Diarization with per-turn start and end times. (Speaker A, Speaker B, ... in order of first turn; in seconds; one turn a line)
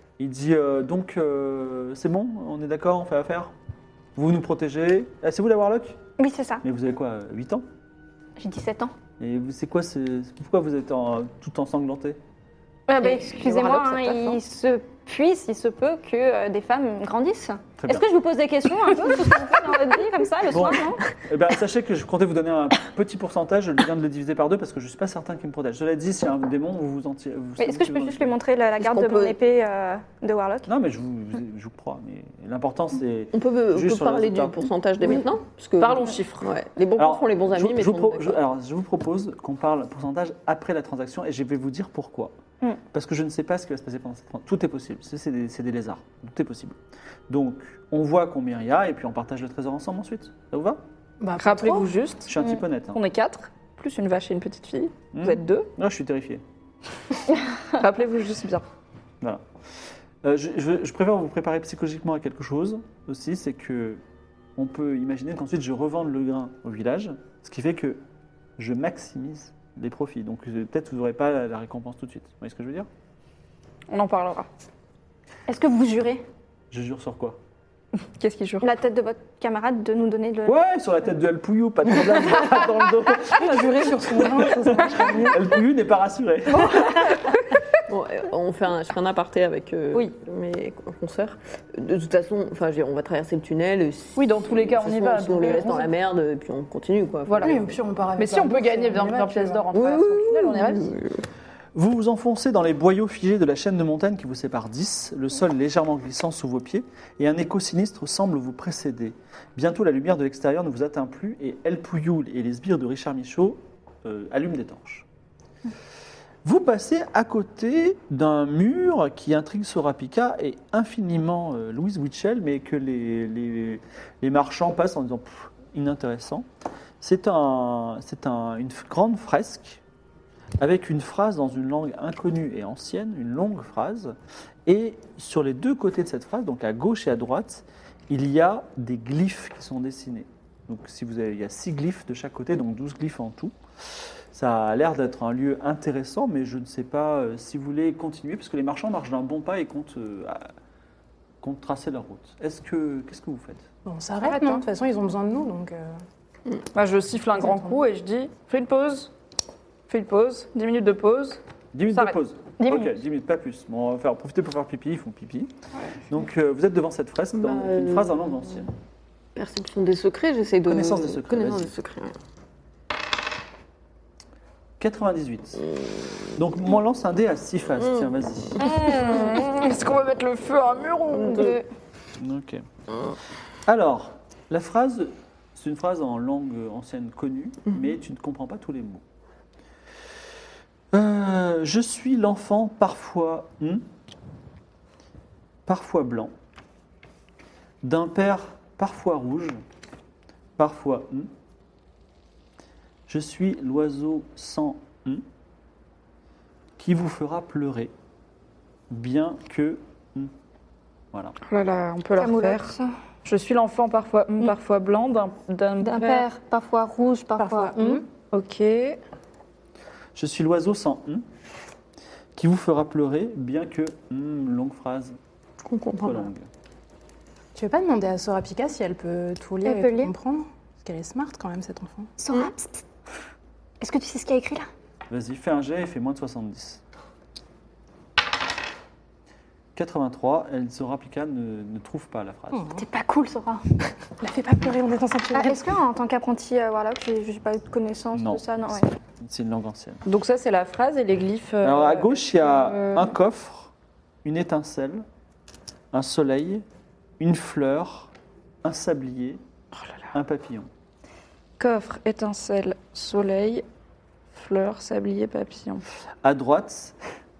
Speaker A: 0.2-3.5
Speaker A: 4.2-6.0
Speaker B: 6.2-6.6
Speaker A: 6.6-7.7
Speaker B: 8.4-8.9
Speaker A: 9.2-12.2
Speaker C: 12.9-14.4
Speaker B: 12.9-21.0
Speaker A: 17.8-18.1
Speaker A: 20.5-28.4
Speaker B: 27.6-30.7
Speaker D: 28.8-29.4
Speaker A: 30.7-34.7
Speaker D: 33.3-38.4
Speaker C: 35.8-36.5
Speaker A: 37.0-42.3
Speaker A: 42.9-46.8
Speaker A: 47.3-50.8
Speaker E: 51.2-51.9
Speaker C: 51.4-52.3
Speaker A: 52.3-53.0
Speaker B: 52.4-52.6
Speaker C: 52.9-55.7
Speaker A: 55.1-56.4
Speaker C: 57.7-58.6
Speaker A: 60.2-64.0
Speaker A: 64.6-68.0
Speaker A: 68.6-72.9
Speaker C: 73.9-74.5
Speaker B: 75.5-76.2
Speaker A: 76.7-77.4
Speaker C: 78.2-78.7
Speaker B: 78.6-80.6
Speaker A: 80.5-83.6
Speaker E: 83.3-85.5
Speaker A: 84.5-87.1
Speaker B: 86.6-87.2
Speaker D: 87.9-97.8
Speaker C: 94.2-95.9
Speaker C: 97.3-97.6
Speaker E: 97.4-99.7
Speaker C: 98.2-100.9
Speaker D: 99.7-101.2
Speaker A: 101.8-115.1
Speaker A: 116.4-126.5
Speaker A: 127.0-129.8
Speaker A: 130.6-150.5
Speaker A: 151.4-153.7
Speaker E: 153.8-155.9
Speaker C: 154.2-154.6
Speaker C: 156.7-159.1
Speaker E: 157.4-157.8
Speaker C: 159.9-161.4
Speaker A: 161.7-165.5
Speaker B: 162.6-162.9
Speaker A: 166.1-168.7
Speaker D: 167.4-168.4
Speaker D: 169.4-172.2
Speaker A: 170.7-171.7
Speaker A: 174.8-175.7
Speaker A: 176.4-178.6
Speaker D: 177.8-178.1
Speaker C: 178.6-181.6
Speaker D: 181.3-181.6
Speaker A: 182.2-182.7
Speaker A: 183.7-189.0
Speaker A: 190.9-193.8
Speaker A: 195.7-196.3
Speaker A: 197.8-199.6
Speaker A: 200.6-201.3
Speaker A: 203.1-205.2
Speaker A: 206.8-207.9
Speaker A: 208.9-210.3
Speaker C: 211.4-212.7
Speaker B: 212.2-212.9
Speaker C: 213.2-216.3
Speaker B: 215.8-218.0
Speaker E: 217.4-218.0
Speaker C: 218.3-219.0
Speaker A: 220.2-221.2
Speaker A: 222.3-225.2
Speaker D: 225.6-226.3
Speaker A: 226.0-226.5
Speaker E: 227.6-232.1
Speaker B: 229.6-230.1
Speaker B: 232.2-232.8
Speaker B: 233.8-234.7
Speaker A: 235.1-236.8
Speaker A: 239.8-242.7
Speaker E: 242.5-242.8
Speaker B: 242.8-243.6
Speaker E: 244.2-245.7
Speaker B: 245.3-248.9
Speaker A: 248.1-250.0
Speaker C: 250.1-252.2
Speaker A: 251.6-253.7
Speaker A: 254.2-255.1
Speaker A: 255.9-256.6
Speaker A: 257.2-258.1
Speaker A: 258.6-259.4
Speaker A: 260.1-260.7
Speaker C: 261.6-263.6
Speaker C: 264.3-265.8
Speaker A: 266.2-266.9